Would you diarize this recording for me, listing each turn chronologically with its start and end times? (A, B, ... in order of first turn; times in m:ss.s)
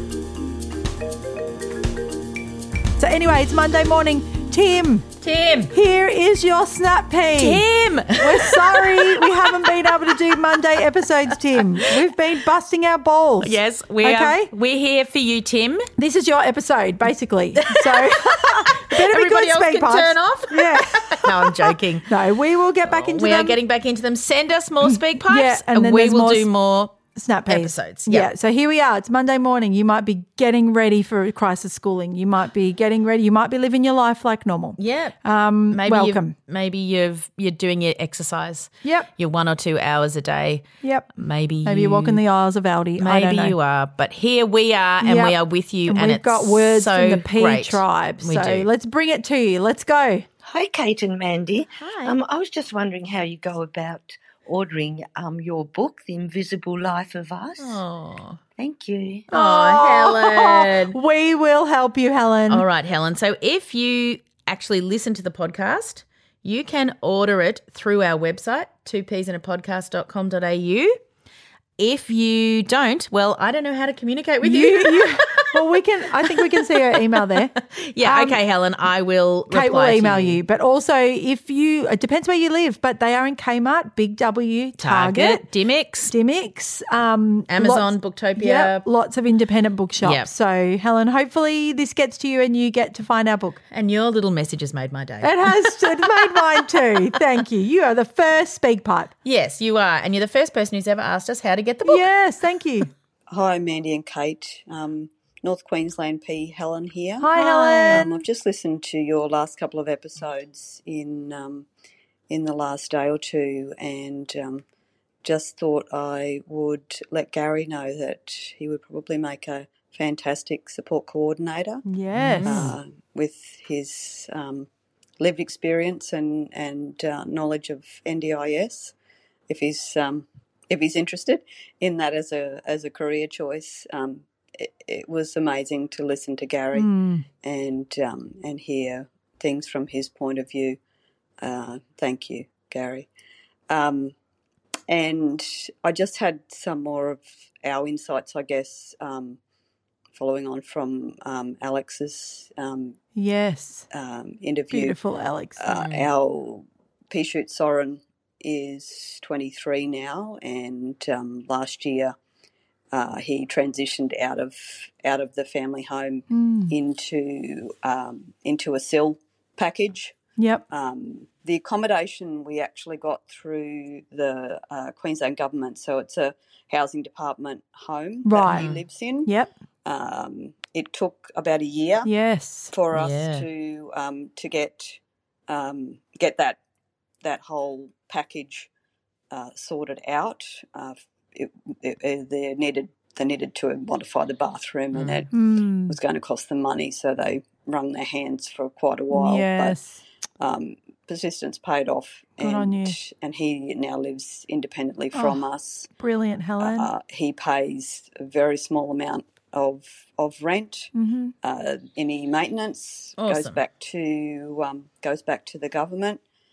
0:03.0-0:05.1 A
0:05.2-0:05.7 B
0:05.7-0:07.6 A
0:07.3-0:09.7 B
0:08.2-0:14.5 A
0:11.6-0:12.0 B
0:13.4-0:15.9 B
0:16.0-0:23.6 A
0:17.6-0:22.1 B
0:22.8-0:28.3 B
0:24.8-0:26.5 A
0:27.0-0:36.4 A
0:34.8-0:35.2 B
0:35.7-0:40.6 B
0:38.8-0:39.1 A
0:40.8-0:41.1 A
0:41.2-0:42.2 B
0:41.6-0:43.6 A
0:43.0-0:48.7 B
0:45.0-0:50.3 A
0:50.4-0:57.8 C
0:51.8-0:52.2 B
0:57.6-0:58.4 B
0:58.6-0:59.3 C
0:59.3-1:01.0 B
0:59.3-1:02.7 A
1:02.5-1:11.0 B
1:11.8-1:15.6 B
1:14.4-1:18.4 A
1:16.2-1:20.4 B
1:19.5-1:25.5 A
1:24.8-1:26.1 B
1:26.1-1:33.6 A
1:27.5-1:28.9 B
1:30.0-1:30.3 B
1:33.7-1:37.2 B
1:35.2-1:39.1 A
1:39.2-1:42.1 B
1:41.8-1:42.9 A
1:43.3-1:47.3 D
1:47.2-1:48.1 A
1:47.4-1:48.0 B
1:47.9-1:51.7 D
1:52.3-1:54.6 D
1:55.2-2:01.8 D
2:01.8-2:02.7 A
2:02.1-2:02.7 B
2:02.4-2:04.7 D
2:05.2-2:08.9 D
2:09.5-2:16.9 D
2:16.8-2:17.2 A
2:17.4-2:20.8 D
2:21.4-2:23.1 D
2:23.7-2:24.1 D
2:24.9-2:29.4 D
2:30.1-2:33.0 D
2:33.1-2:33.9 A
2:33.9-2:35.0 D
2:34.7-2:35.6 A
2:35.6-2:42.2 D
2:35.7-2:36.1 B
2:42.9-2:50.2 D
2:46.3-2:46.8 A
2:50.4-2:50.6 A
2:50.7-2:59.3 D
2:58.2-2:58.7 A
2:58.5-2:58.8 B
2:59.2-2:59.5 A
2:59.8-3:02.1 D
3:02.0-3:02.7 A
3:02.7-3:06.6 D
3:02.9-3:03.4 B
3:07.2-3:08.7 D
3:09.3-3:15.3 D
3:14.9-3:15.2 B
3:15.3-3:16.0 A
3:15.9-3:19.8 D
3:19.1-3:20.0 A
3:20.4-3:25.9 D
3:22.4-3:23.0 A
3:25.1-3:25.4 A
3:26.0-3:26.9 A
3:26.6-3:30.9 D
3:30.9-3:31.3 A
3:31.4-3:36.2 D
3:33.2-3:33.6 B